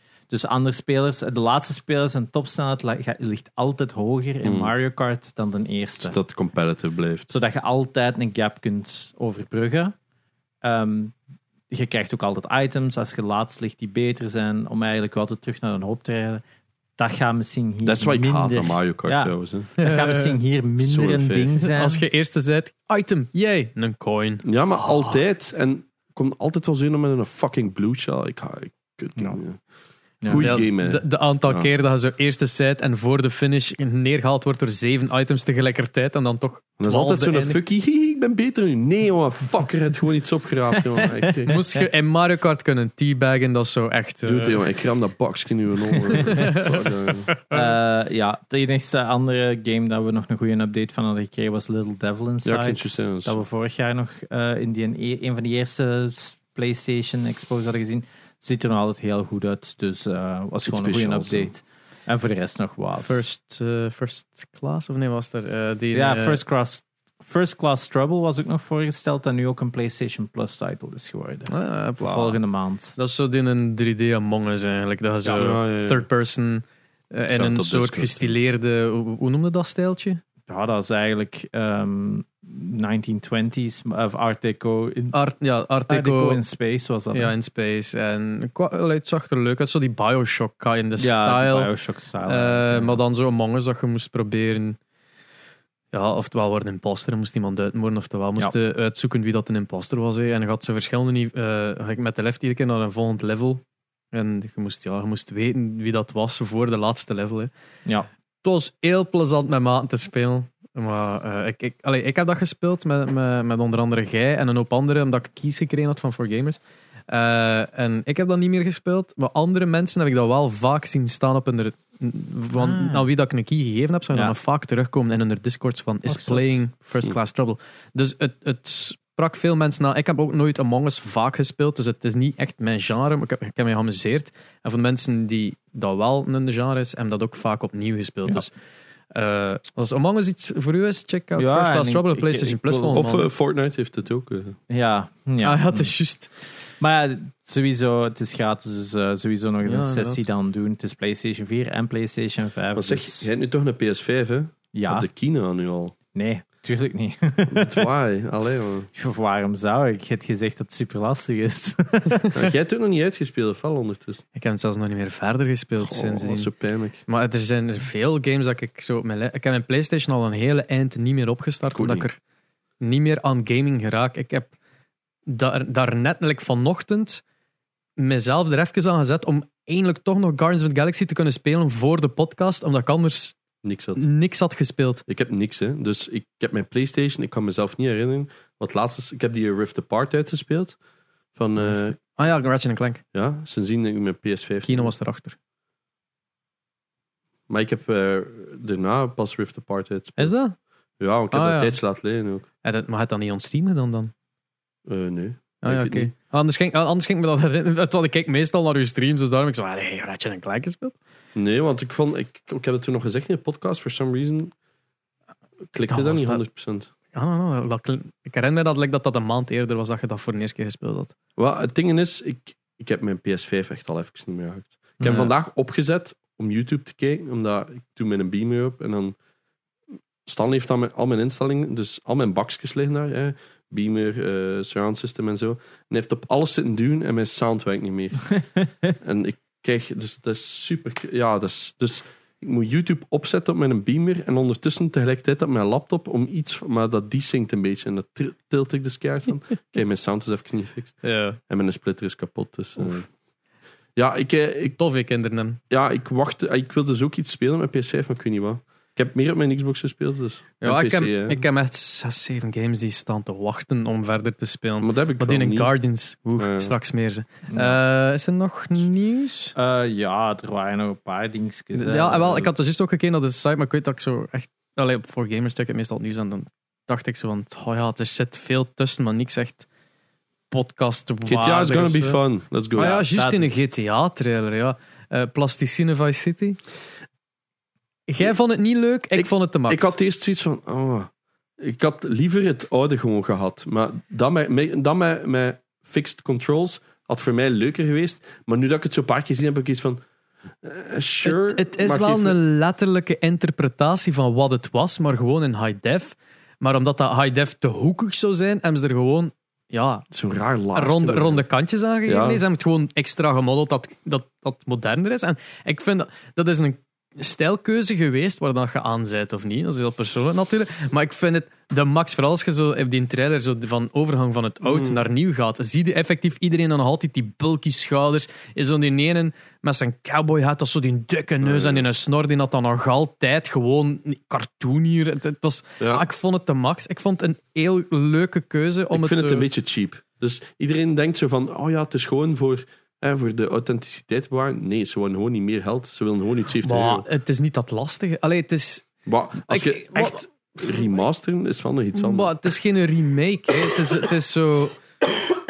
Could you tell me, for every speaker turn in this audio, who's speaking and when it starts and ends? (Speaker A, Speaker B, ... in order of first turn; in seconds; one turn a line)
Speaker A: 0.3-6.2
Speaker B: 4.4-4.7
Speaker B: 6.0-7.3
Speaker A: 7.3-9.9
Speaker A: 10.6-11.2
Speaker A: 11.7-16.4
Speaker A: 17.0-22.0
Speaker B: 17.8-19.7
Speaker C: 19.8-20.3
Speaker B: 20.8-21.6
Speaker C: 21.7-25.2
Speaker B: 24.4-29.6
Speaker A: 30.2-30.5
Speaker B: 30.2-31.7
Speaker C: 30.4-37.6
Speaker B: 36.8-41.5
Speaker A: 41.0-41.9
Speaker C: 41.5-44.8
Speaker B: 44.2-47.3
Speaker A: 46.2-46.4
Speaker C: 46.3-46.6
Speaker C: 47.3-47.7
Speaker A: 47.5-63.2
Speaker B: 52.4-53.4
Speaker B: 60.6-61.5
Speaker C: 63.0-66.4
Speaker A: 65.9-73.0
Speaker C: 71.5-72.4
Speaker C: 73.0-80.2
Speaker A: 75.2-75.5
Speaker B: 75.3-76.0
Speaker B: 77.3-78.3
Speaker A: 80.5-85.2
Speaker C: 85.1-86.4
Speaker A: 85.9-87.3
Speaker C: 87.1-91.7
Speaker A: 91.0-93.0
Speaker C: 92.2-94.8
Speaker C: 95.9-103.6
Speaker C: 104.1-107.5
Speaker C: 108.4-138.5
Speaker A: 122.5-123.1
Speaker A: 126.0-126.6
Speaker C: 139.1-143.3
Speaker A: 141.3-143.0
Speaker B: 142.9-144.6
Speaker A: 144.7-145.9
Speaker C: 145.4-146.3
Speaker A: 146.8-153.3
Speaker C: 149.6-150.2
Speaker B: 152.7-155.9
Speaker A: 154.7-155.1
Speaker A: 156.1-157.9
Speaker B: 157.5-158.9
Speaker A: 158.9-162.3
Speaker B: 162.3-164.2
Speaker C: 164.3-166.5
Speaker B: 165.8-167.0
Speaker C: 167.1-172.2
Speaker B: 171.7-172.1
Speaker C: 172.8-174.5
Speaker C: 175.3-177.2
Speaker C: 178.0-183.4
Speaker B: 183.6-184.0
Speaker C: 183.9-185.0
Speaker B: 185.1-190.8
Speaker B: 191.3-191.9
Speaker C: 191.6-193.0
Speaker B: 193.1-194.9
Speaker C: 194.7-195.3
Speaker B: 197.5-200.3
Speaker C: 200.2-200.6
Speaker B: 201.0-202.4
Speaker C: 201.3-201.8
Speaker C: 202.6-204.1
Speaker B: 204.9-206.1
Speaker C: 205.6-210.9
Speaker B: 211.3-214.5
Speaker B: 215.7-216.9
Speaker C: 215.9-216.4
Speaker C: 217.1-221.1
Speaker B: 221.4-229.2
Speaker A: 225.0-225.3
Speaker B: 230.2-238.3
Speaker B: 239.0-253.1
Speaker C: 251.0-251.4
Speaker B: 253.9-254.8
Speaker C: 254.8-255.6
Speaker B: 255.7-261.4
Speaker C: 260.6-269.5
Speaker B: 264.8-265.7
Speaker B: 266.4-266.7
Speaker A: 267.5-267.8
Speaker A: 269.5-272.5
Speaker C: 271.7-279.6
Speaker C: 280.5-282.2
Speaker B: 281.2-283.0
Speaker C: 282.8-286.6
Speaker A: 282.8-283.7
Speaker C: 288.1-289.9
Speaker B: 289.1-300.0
Speaker B: 300.6-302.4
Speaker C: 301.2-310.1
Speaker B: 310.1-311.4
Speaker C: 310.7-339.5
Speaker B: 312.1-312.4
Speaker B: 324.6-325.0
Speaker B: 331.4-331.8
Speaker B: 335.8-336.0
Speaker B: 338.9-347.0
Speaker C: 346.6-348.9
Speaker B: 349.1-352.3
Speaker C: 349.4-350.2
Speaker C: 351.9-354.8